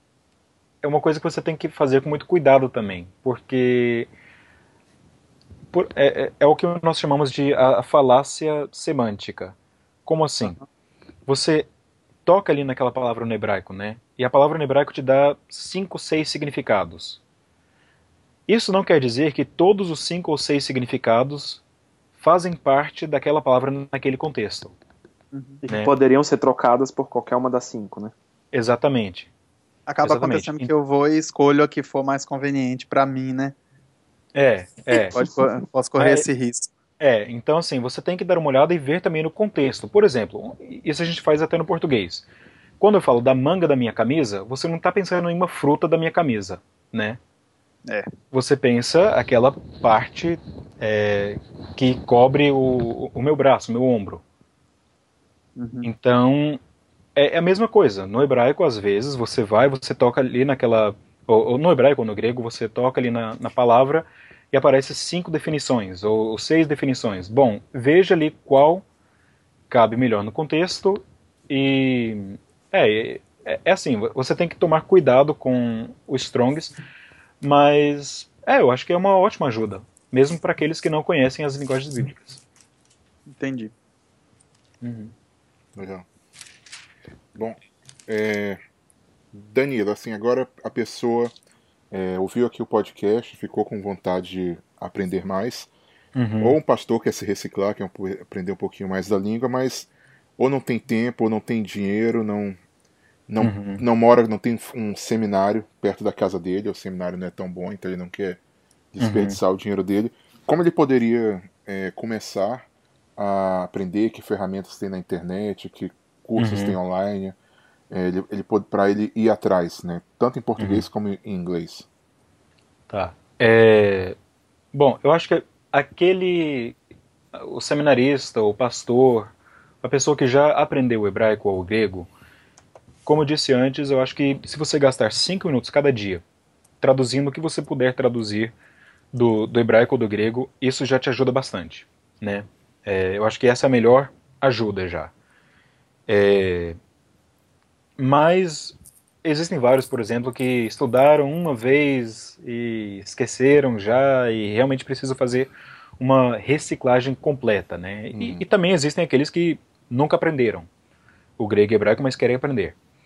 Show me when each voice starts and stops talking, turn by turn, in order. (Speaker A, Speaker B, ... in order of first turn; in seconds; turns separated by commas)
Speaker A: 0.8-4.1, Speaker A: 5.7-10.6, Speaker A: 11.3-11.7, Speaker A: 12.2-17.2, Speaker A: 18.5-21.6, Speaker A: 22.2-24.8, Speaker B: 25.3-25.6, Speaker C: 25.6-28.1, Speaker A: 25.7-25.9, Speaker A: 28.5-29.3, Speaker B: 29.9-33.5, Speaker A: 30.0-30.7, Speaker A: 34.3-35.2, Speaker B: 35.1-36.7, Speaker A: 36.0-36.2, Speaker A: 37.0-42.2, Speaker A: 42.8-47.2, Speaker A: 48.3-54.2, Speaker B: 55.6-55.9, Speaker A: 55.8-56.6, Speaker A: 57.1-68.8, Speaker A: 69.7-76.7, Speaker A: 77.4-82.4, Speaker B: 83.3-83.7, Speaker A: 84.8-85.1, Speaker D: 85.7-86.0, Speaker D: 87.3-88.6, Speaker D: 89.3-91.3, Speaker D: 91.9-95.7, Speaker A: 96.1-96.6, Speaker D: 96.4-102.6, Speaker D: 103.3-108.4, Speaker A: 103.4-103.8, Speaker D: 108.9-117.3, Speaker A: 109.0-109.4, Speaker A: 116.4-116.8, Speaker D: 117.9-121.9, Speaker A: 120.6-120.8, Speaker A: 122.9-124.2, Speaker A: 124.7-126.8, Speaker A: 127.3-129.3, Speaker A: 129.8-132.1, Speaker A: 133.1-136.2, Speaker A: 136.8-138.5, Speaker A: 139.1-145.1, Speaker A: 146.1-146.8, Speaker A: 148.0-160.7, Speaker D: 158.1-158.4, Speaker A: 161.4-162.7